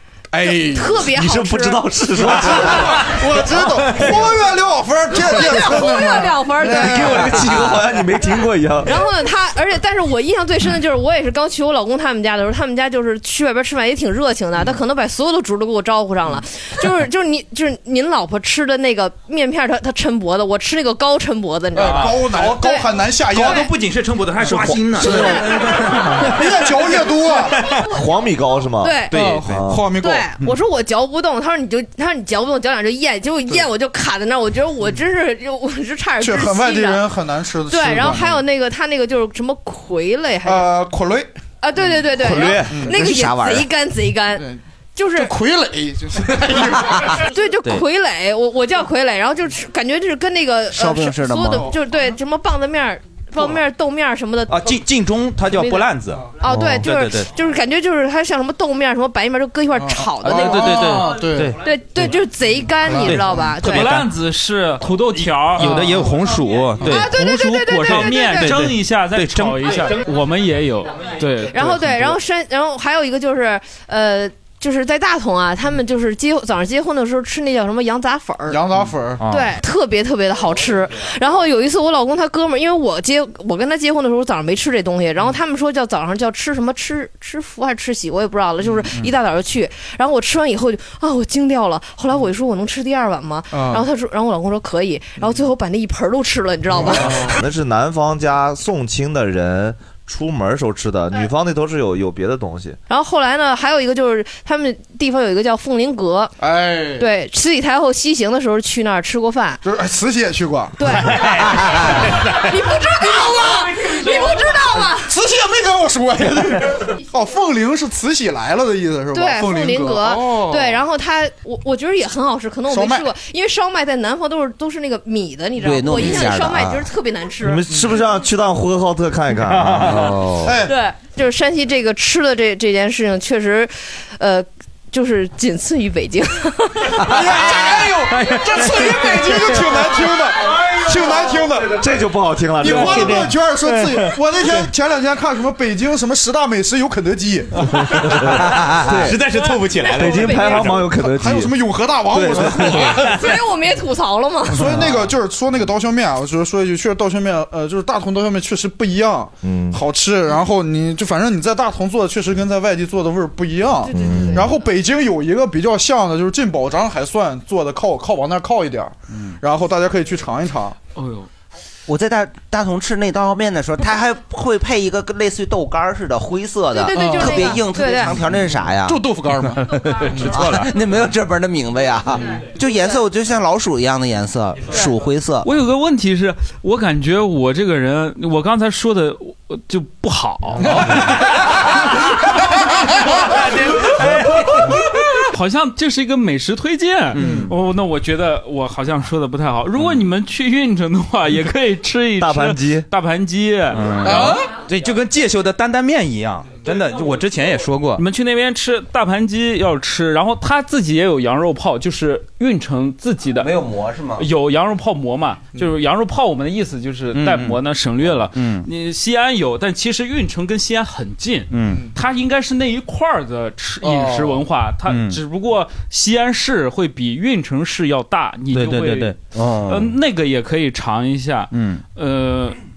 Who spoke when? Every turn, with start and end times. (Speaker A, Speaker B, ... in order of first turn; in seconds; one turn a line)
Speaker A: 0.3-1.1
Speaker B: 0.4-1.9
Speaker C: 1.0-4.2
Speaker A: 2.1-7.7
Speaker B: 5.2-7.8
Speaker C: 6.6-9.0
Speaker B: 8.8-23.7
Speaker A: 21.7-23.7
Speaker D: 21.8-22.5
Speaker D: 23.2-26.7
Speaker A: 24.4-27.6
Speaker C: 24.5-25.8
Speaker B: 25.0-25.6
Speaker D: 27.5-27.9
Speaker C: 27.9-29.8
Speaker B: 28.8-29.2
Speaker D: 29.1-29.7
Speaker A: 29.1-30.3
Speaker B: 30.0-37.1
Speaker A: 36.2-38.4
Speaker B: 37.7-40.7
Speaker A: 40.5-42.0
Speaker B: 41.6-45.3
Speaker C: 42.2-42.7
Speaker A: 42.7-43.0
Speaker E: 42.9-43.7
Speaker A: 44.3-44.6
Speaker A: 45.1-47.2
Speaker B: 47.0-54.8
Speaker E: 50.7-51.7
Speaker D: 54.5-57.3
Speaker B: 55.5-61.0
Speaker C: 56.5-56.8
Speaker A: 59.8-61.6
Speaker D: 60.2-62.0
Speaker B: 61.6-63.9
Speaker A: 62.8-63.5
Speaker D: 63.1-64.1
Speaker F: 63.6-65.9
Speaker D: 65.1-67.2
Speaker A: 65.6-66.1
Speaker B: 66.8-68.6
Speaker F: 67.0-72.2
Speaker D: 67.7-70.1
Speaker B: 71.5-78.6
Speaker A: 78.5-79.2
Speaker D: 78.8-79.6
Speaker B: 79.3-97.4
Speaker A: 93.5-93.9
Speaker A: 96.7-97.4
Speaker C: 97.1-102.8
Speaker B: 102.9-106.4
Speaker A: 106.4-107.1
Speaker B: 107.0-109.6
Speaker A: 109.6-111.4
Speaker B: 110.8-115.1
Speaker D: 110.8-112.5
Speaker A: 113.9-114.2
Speaker A: 115.0-120.8
Speaker B: 119.1-127.7
Speaker A: 122.7-123.1
Speaker E: 125.6-126.9
Speaker C: 127.4-130.5
Speaker A: 127.7-128.1
Speaker D: 129.5-130.2
Speaker A: 130.4-130.8
Speaker B: 130.6-137.2
Speaker A: 136.9-141.9
Speaker D: 137.1-141.1
Speaker C: 141.4-143.3
Speaker A: 142.6-147.6
Speaker D: 142.6-144.7
Speaker D: 147.6-150.9
Speaker C: 147.8-149.3
Speaker B: 149.5-150.7
Speaker C: 149.8-153.0
Speaker A: 150.6-153.3
Speaker B: 152.9-154.8
Speaker D: 153.0-153.3
Speaker A: 154.5-170.8
Speaker C: 159.4-159.8
Speaker B: 163.9-164.5
Speaker C: 163.9-164.5
Speaker D: 169.1-169.4
Speaker F: 170.9-171.3
Speaker E: 171.9-179.0
Speaker B: 176.7-178.2
Speaker A: 176.9-177.6
Speaker A: 178.8-180.5
Speaker D: 179.7-180.7
Speaker E: 180.1-185.5
Speaker F: 185.4-191.8
Speaker F: 193.2-204.4
Speaker D: 197.1-197.5
Speaker A: 197.2-197.5
Speaker C: 202.2-202.9
Speaker D: 203.7-208.0
Speaker A: 204.1-204.5
Speaker F: 208.0-232.6
Speaker E: 213.6-214.0
Speaker D: 217.1-217.6
Speaker D: 218.3-218.7
Speaker D: 221.5-221.9
Speaker A: 221.6-221.9
Speaker A: 223.8-224.4
Speaker D: 224.8-225.2
Speaker D: 228.5-229.2
Speaker E: 229.3-229.9
Speaker D: 231.5-231.8